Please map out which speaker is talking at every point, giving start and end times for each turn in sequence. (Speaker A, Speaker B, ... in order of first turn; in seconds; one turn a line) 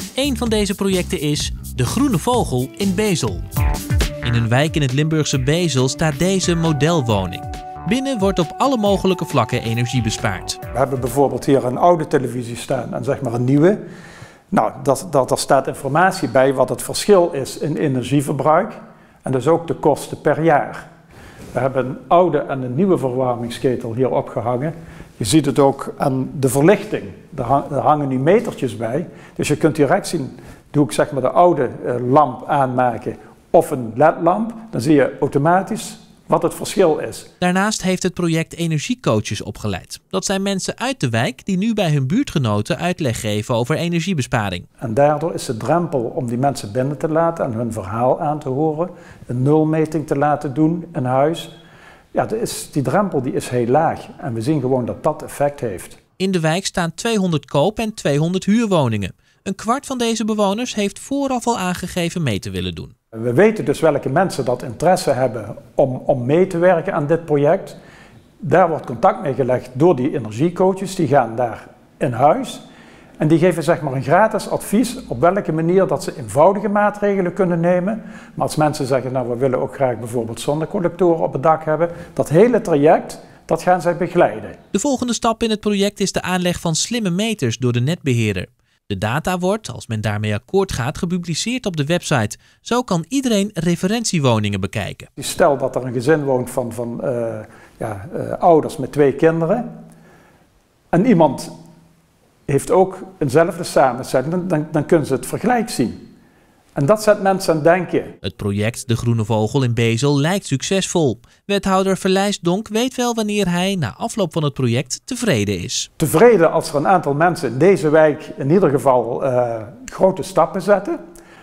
Speaker A: 0.2-3.4
Speaker A: 4.2-10.6
Speaker B: 10.7-13.8
Speaker B: 14.5-20.8
Speaker B: 21.5-37.3
Speaker A: 37.4-44.7
Speaker B: 44.8-51.5
Speaker B: 52.1-56.0
Speaker A: 56.2-62.9
Speaker B: 63.1-67.8
Speaker B: 68.4-72.6
Speaker B: 73.2-84.5
Speaker A: 84.7-95.1
Speaker B: 95.2-99.6
Speaker B: 100.9-101.5
Speaker B: 102.5-106.0
Speaker B: 106.7-108.1
Speaker A: 108.2-115.9
Speaker B: 116.0-121.0